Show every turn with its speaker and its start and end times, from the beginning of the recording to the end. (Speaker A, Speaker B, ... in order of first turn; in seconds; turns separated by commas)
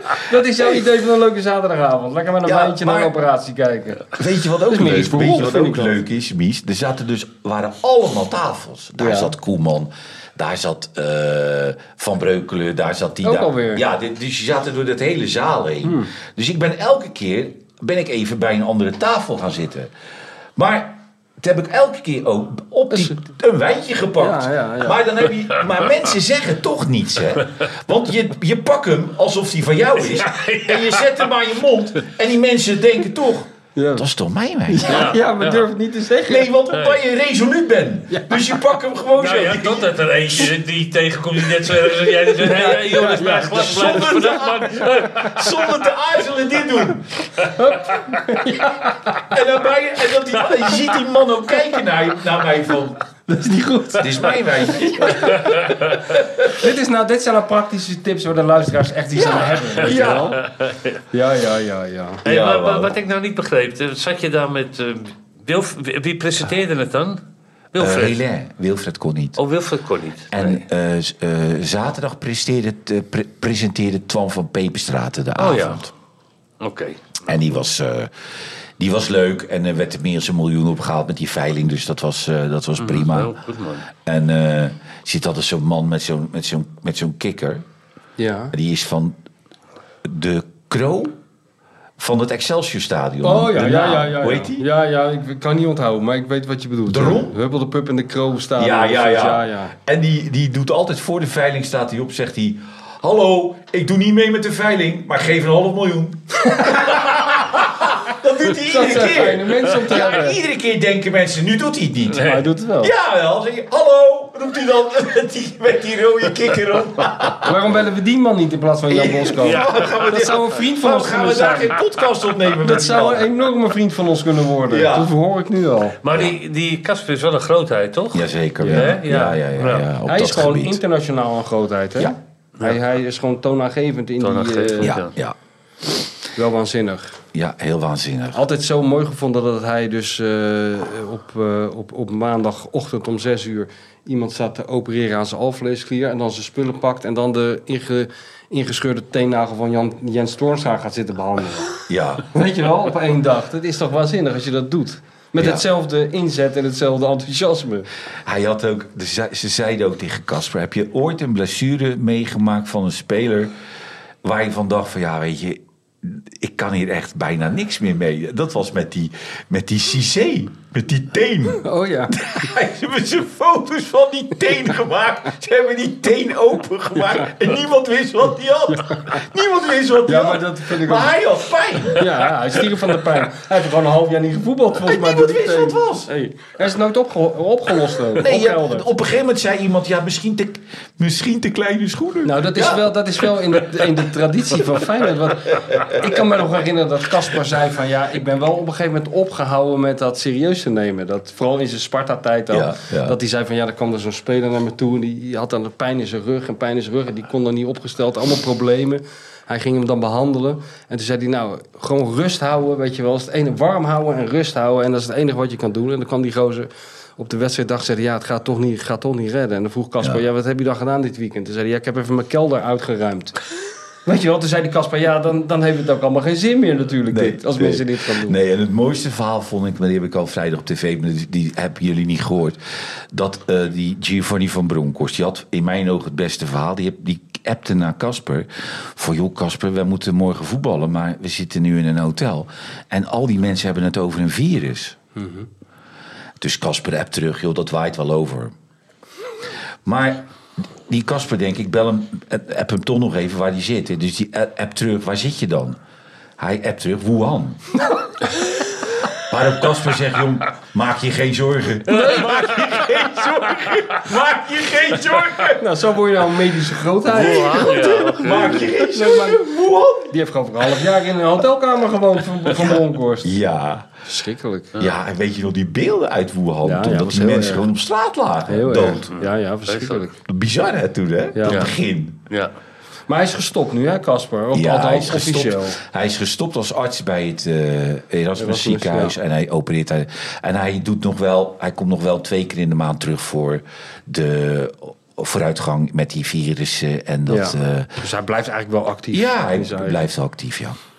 Speaker A: 0.2-4.1, Speaker B: 2.5-3.1, Speaker B: 4.1-19.9, Speaker A: 4.6-6.0, Speaker A: 9.0-9.3, Speaker A: 13.2-13.8, Speaker A: 15.8-16.1, Speaker B: 20.6-35.2, Speaker A: 22.9-23.2, Speaker A: 24.2-25.0, Speaker C: 30.1-31.1, Speaker A: 33.8-34.0, Speaker A: 34.7-36.5, Speaker C: 34.9-35.7, Speaker B: 36.2-40.5, Speaker C: 36.7-37.0, Speaker C: 39.1-45.7, Speaker A: 42.3-44.1, Speaker B: 43.5-47.3, Speaker A: 47.4-49.2, Speaker B: 49.2-53.0, Speaker A: 53.3-55.7, Speaker B: 54.0-55.6, Speaker C: 55.3-56.0, Speaker B: 56.1-56.5, Speaker A: 56.4-60.4, Speaker B: 59.1-60.4, Speaker C: 59.8-61.0, Speaker A: 61.1-62.2, Speaker B: 62.2-62.9, Speaker C: 62.2-67.2, Speaker C: 67.7-68.2, Speaker B: 67.8-69.4, Speaker C: 69.4-70.6, Speaker B: 70.3-75.9, Speaker C: 75.4-75.9, Speaker C: 76.6-77.3, Speaker B: 77.2-78.1, Speaker B: 78.8-83.4, Speaker C: 82.8-83.8, Speaker B: 84.0-87.6, Speaker A: 88.2-88.5, Speaker B: 88.5-89.2, Speaker B: 90.0-91.2, Speaker B: 92.0-94.6, Speaker A: 93.2-99.7, Speaker B: 96.9-97.3, Speaker B: 98.6-117.6, Speaker A: 108.4-110.4, Speaker A: 112.1-112.9, Speaker C: 112.2-112.4, Speaker A: 117.4-121.8, Speaker B: 118.9-123.3, Speaker C: 119.4-120.2, Speaker A: 122.6-126.0, Speaker B: 124.7-125.1, Speaker C: 126.0-129.9, Speaker B: 126.1-126.4, Speaker B: 128.1-130.8, Speaker A: 128.6-129.3, Speaker A: 130.1-134.9, Speaker C: 134.2-135.1, Speaker B: 134.8-135.3, Speaker A: 136.3-137.2, Speaker B: 137.3-138.4, Speaker A: 138.3-151.7, Speaker B: 151.9-152.2, Speaker A: 152.3-157.9, Speaker B: 155.4-155.6, Speaker B: 158.2-163.5, Speaker B: 164.2-182.6, Speaker A: 171.6-172.2, Speaker A: 178.7-179.2, Speaker A: 180.1-181.1, Speaker A: 181.9-188.9, Speaker B: 184.8-186.1, Speaker B: 188.1-192.9, Speaker A: 192.2-223.4, Speaker B: 195.7-196.2, Speaker B: 202.5-203.2, Speaker A: 224.0-228.4, Speaker B: 227.1-232.6, Speaker B: 233.1-245.0, Speaker A: 245.2-245.5, Speaker B: 246.4-248.5, Speaker B: 249.8-250.3, Speaker B: 250.9-255.8, Speaker B: 256.4-257.6, Speaker B: 259.1-265.6, Speaker A: 261.9-262.3, Speaker A: 265.6-269.5, Speaker C: 267.1-268.7, Speaker B: 267.3-270.1, Speaker A: 270.1-273.3, Speaker B: 272.6-273.9, Speaker A: 274.0-274.7, Speaker B: 274.8-279.1, Speaker A: 276.6-277.7, Speaker A: 278.5-280.2, Speaker C: 279.2-280.0, Speaker B: 280.2-282.2, Speaker A: 281.3-281.7, Speaker A: 283.1-285.8, Speaker B: 284.5-297.9, Speaker A: 288.4-289.1, Speaker A: 297.3-300.1, Speaker B: 299.1-300.8